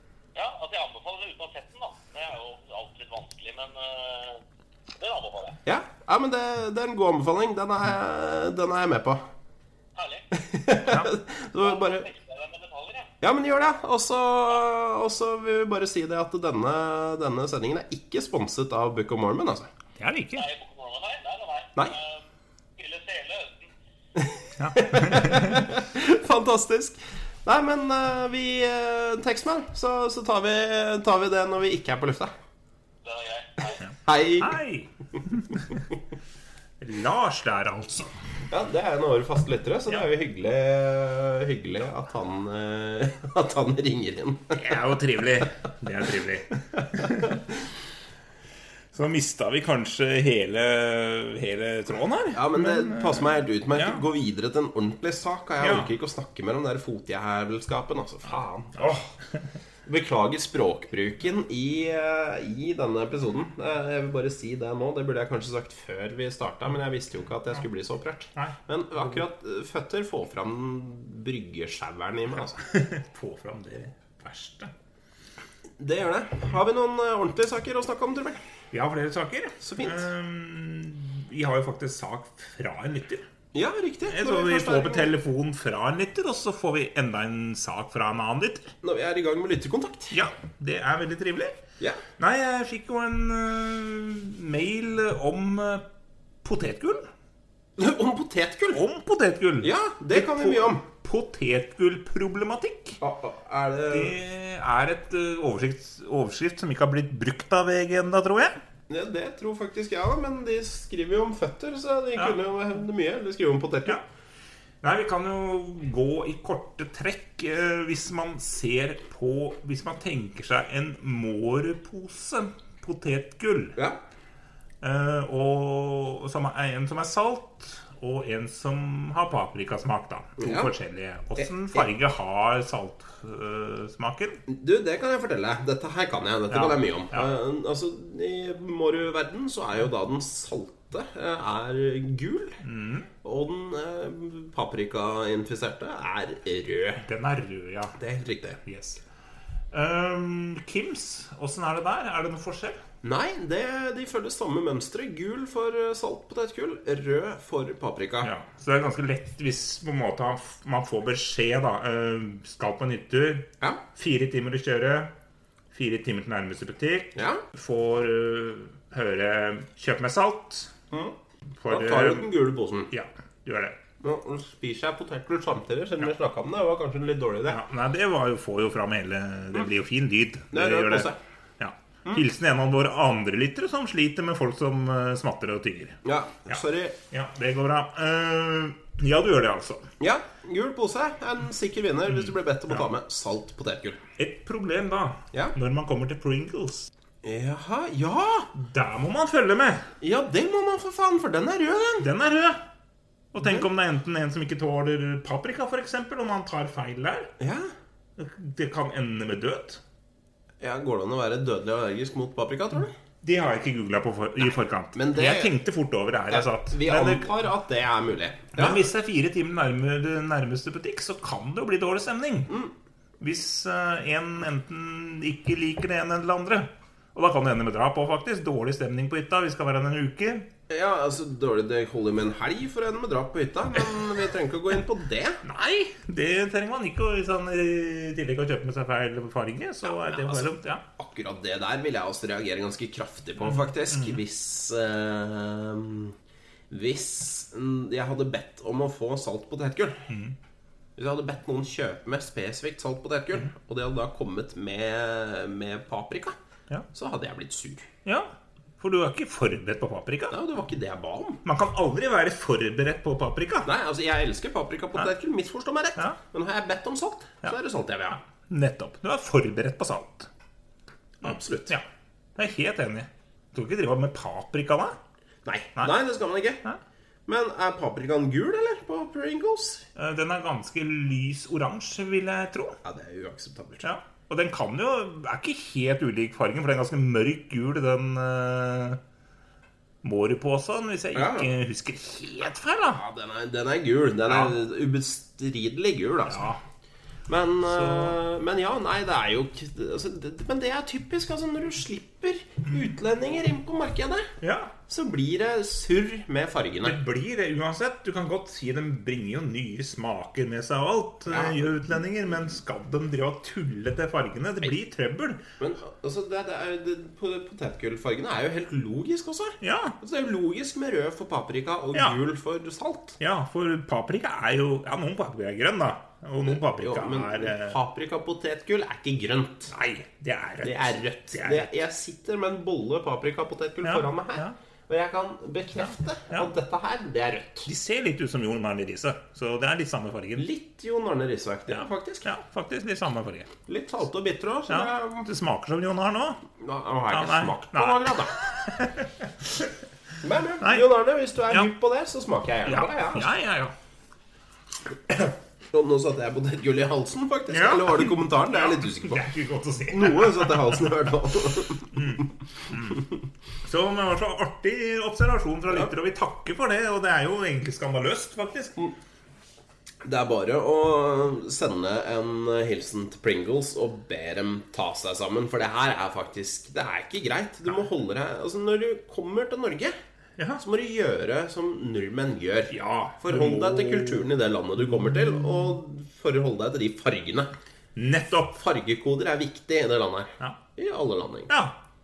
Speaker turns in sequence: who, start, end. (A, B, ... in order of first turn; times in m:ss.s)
0:00.3-0:04.4 A
0:05.0-0:05.6 A
0:05.6-0:09.2 B
0:09.9-0:10.3 A
0:10.3-0:12.1 B
0:10.8-0:11.1 C
0:11.6-0:13.1 A
0:13.2-0:19.7 B
0:20.0-0:20.4 C
0:20.3-0:22.2 A
0:22.8-0:23.7 A
0:24.2-0:32.3 B
0:24.6-0:25.7 C
0:33.0-0:33.8 A
0:34.0-0:34.6 B
0:34.4-0:35.8 C
0:35.2-0:35.6 B
0:36.8-0:38.2 C
0:38.5-0:44.6 B
0:44.5-0:47.4 C
0:47.1-0:47.4 B
0:48.9-0:54.0 C
0:52.3-0:59.0 B
0:55.6-0:55.9 C
0:58.8-0:59.0 C
0:59.8-1:12.6 B
1:08.4-1:09.2 C
1:12.6-1:14.7 C
1:15.8-1:18.4 B
1:18.7-1:23.3 C
1:19.6-1:20.1 B
1:23.5-1:25.1 B
1:24.1-1:28.7 C
1:28.8-1:30.2 B
1:30.1-1:31.6 C
1:32.2-1:35.8 C
1:36.4-1:37.1 C
1:37.8-1:38.8 B
1:38.7-1:43.0 C
1:39.6-1:40.8 B
1:43.0-1:44.1 B
1:43.9-1:48.6 C
1:48.9-1:54.0 B
1:54.8-2:03.8 C
2:04.8-2:14.4 C
2:10.4-2:10.7 B
2:11.4-2:11.9 B
2:14.5-2:22.6 B
2:16.5-2:17.3 C
2:22.6-2:23.1 C
2:23.2-2:27.0 B
2:27.0-2:28.0 C
2:28.0-2:28.6 B
2:28.6-2:29.0 C
2:29.7-2:32.8 C
2:33.0-2:38.3 B
2:38.2-2:45.1 C
2:45.7-2:50.7 C
2:47.1-2:47.4 B
2:51.6-2:52.3 C
2:51.6-2:52.9 B
2:52.9-2:53.8 C
2:54.0-2:57.6 B
2:57.5-3:09.8 C
3:00.5-3:01.2 B
3:06.0-3:07.0 B
3:10.0-3:14.0 B
3:12.1-3:12.8 C
3:14.2-3:16.9 C
3:17.2-3:18.5 B
3:18.5-3:19.9 C
3:20.0-3:22.1 B
3:22.0-3:22.6 C
3:23.3-3:27.3 C
3:23.4-3:23.7 B
3:27.4-3:27.7 B
3:28.2-3:29.8 C
3:30.6-3:32.9 B
3:33.2-3:37.3 C
3:34.9-3:35.6 B
3:36.3-3:38.8 B
3:38.5-3:42.5 C
3:43.2-3:50.5 C
3:50.7-3:55.4 B
3:55.4-4:00.8 C
3:59.9-4:06.1 B
4:03.4-4:04.2 C
4:06.7-4:10.1 B
4:10.1-4:10.4 C
4:11.0-4:16.4 B
4:16.9-4:17.9 B
4:18.0-4:20.4 C
4:20.3-4:21.4 B
4:21.4-4:23.7 C
4:23.6-4:28.2 B
4:28.3-4:30.3 C
4:31.2-4:31.8 B
4:31.2-4:31.8 C
4:32.4-4:35.0 C
4:35.4-4:36.6 B
4:37.3-4:39.8 B
4:39.9-4:42.8 C
4:42.8-4:43.9 B
4:43.8-4:49.0 C
4:50.0-4:53.0 C
4:51.1-4:51.5 B
4:52.9-4:56.4 B
4:54.3-4:54.5 C
4:56.3-4:56.6 C
4:57.3-5:04.3 B
4:57.7-4:58.2 C
5:04.4-5:04.7 C
5:04.9-5:07.0 B
5:06.8-5:15.4 C
5:11.3-5:11.7 B
5:15.6-5:23.2 B
5:19.6-5:20.0 C
5:21.9-5:22.2 C
5:23.2-5:27.8 C
5:26.5-5:29.7 B
5:29.7-5:31.7 C
5:30.6-5:37.7 B
5:33.8-5:34.5 C
5:35.9-5:36.5 C
5:37.6-5:40.5 C
5:40.4-5:42.3 B
5:41.7-5:43.5 C
5:43.7-5:45.3 B
5:44.7-5:46.4 C
5:46.6-5:48.4 B
5:47.1-5:49.7 C
5:50.2-5:53.3 B
5:52.6-5:53.7 C
5:55.1-5:59.3 B
5:57.5-6:00.9 C
5:59.9-6:02.3 B
6:01.9-6:03.0 C
6:03.6-6:08.7 C
6:10.0-6:19.9 B
6:20.6-6:27.5 B
6:22.7-6:24.3 C
6:28.0-6:28.6 C
6:28.5-6:31.5 B
6:31.5-6:31.8 C